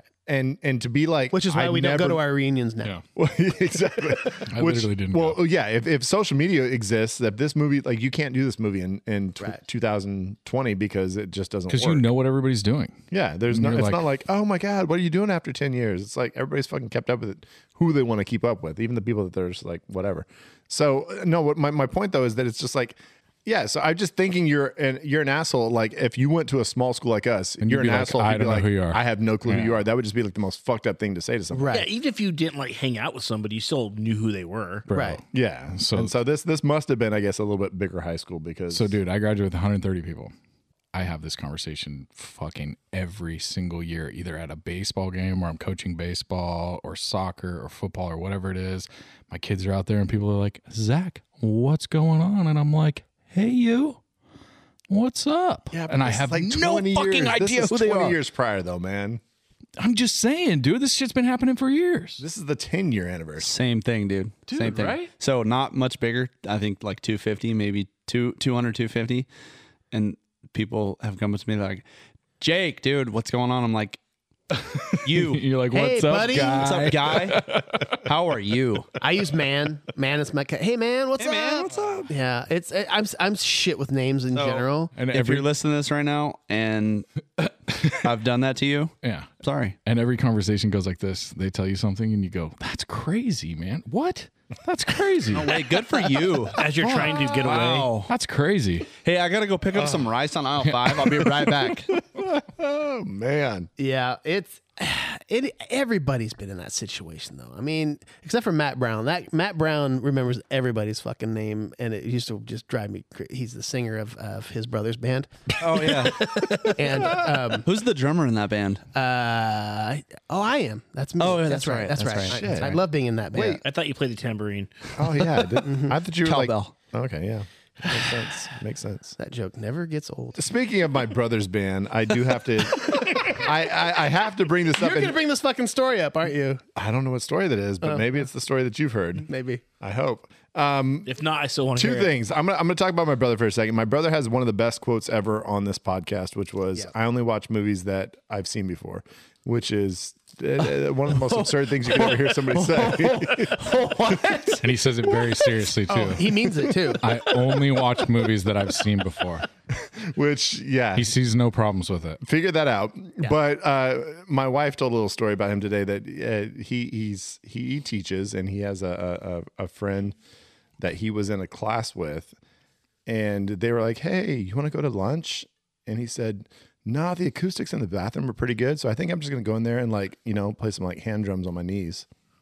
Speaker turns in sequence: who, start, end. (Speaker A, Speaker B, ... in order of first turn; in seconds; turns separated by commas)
Speaker A: 0.3-2.2, Speaker B: 1.3-2.9, Speaker A: 3.2-12.1, Speaker C: 4.5-5.4, Speaker C: 11.7-14.0, Speaker A: 13.1-31.8, Speaker C: 27.6-29.8, Speaker B: 31.5-31.9, Speaker D: 31.7-34.9, Speaker C: 34.9-35.2, Speaker B: 34.9-35.2, Speaker A: 35.3-39.0, Speaker C: 35.7-36.2, Speaker C: 38.7-40.3, Speaker C: 40.9-54.0, Speaker C: 54.9-58.2, Speaker A: 55.7-59.2, Speaker C: 59.8-62.2, Speaker A: 62.2-63.5, Speaker E: 63.4-69.3, Speaker C: 64.5-65.1, Speaker E: 69.9-71.8, Speaker E: 72.4-74.0, Speaker C: 74.6-78.0, Speaker E: 75.0-75.5, Speaker B: 75.7-76.8, Speaker E: 76.3-77.5, Speaker E: 78.0-78.9, Speaker B: 79.0-84.9, Speaker E: 81.2-82.1, Speaker E: 84.3-87.1, Speaker C: 85.0-85.5, Speaker C: 87.4-88.1, Speaker E: 88.0-89.8, Speaker C: 89.0-89.3, Speaker C: 89.8-95.6, Speaker E: 95.3-96.8, Speaker D: 96.6-97.9, Speaker C: 96.9-97.3, Speaker E: 97.4-98.1, Speaker C: 98.1-98.9, Speaker E: 98.9-101.9, Speaker A: 99.7-100.1, Speaker A: 101.3-103.7, Speaker B: 103.8-115.3, Speaker E: 115.6-118.8, Speaker B: 116.6-117.7, Speaker B: 118.9-123.6, Speaker E: 121.2-122.8, Speaker A: 122.1-122.8, Speaker A: 123.3-123.6, Speaker D: 123.6-124.9, Speaker A: 125.0-129.2, Speaker B: 125.6-126.0, Speaker E: 126.2-126.8, Speaker B: 127.9-128.5, Speaker B: 129.2-130.5, Speaker A: 130.3-135.2, Speaker B: 134.8-136.6, Speaker A: 136.8-139.3, Speaker B: 139.3-139.6, Speaker A: 139.8-141.2, Speaker D: 141.1-142.1, Speaker A: 141.8-154.5, Speaker C: 154.6-156.5, Speaker B: 155.9-157.0, Speaker C: 157.0-159.5, Speaker A: 159.7-161.2, Speaker C: 160.9-162.2, Speaker A: 162.2-170.2, Speaker A: 170.8-172.3, Speaker A: 173.1-182.1